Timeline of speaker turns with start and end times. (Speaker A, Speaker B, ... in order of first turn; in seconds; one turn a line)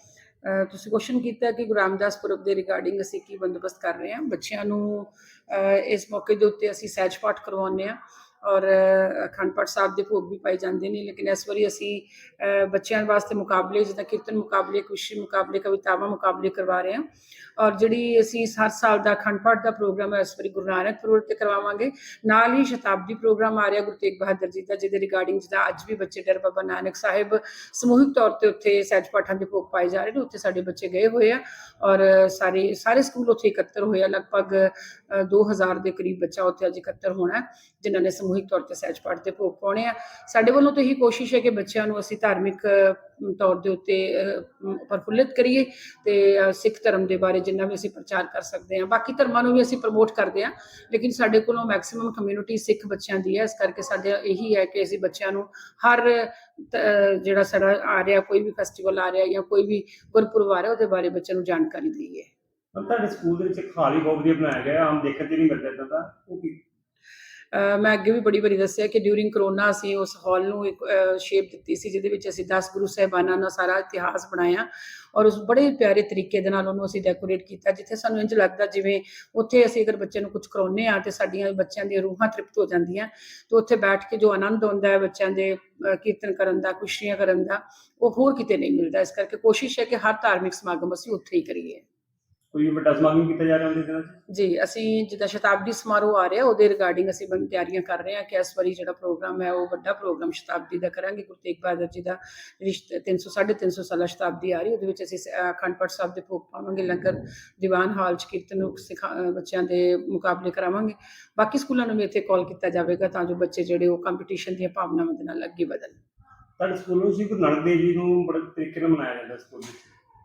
Speaker A: 0.4-17.1
Speaker A: 17.6-62.3
Speaker B: 62.7-66.6
Speaker A: 67.5-91.8
Speaker B: 92.5-94.2
Speaker A: 94.3-116.0
Speaker B: 116.6-119.8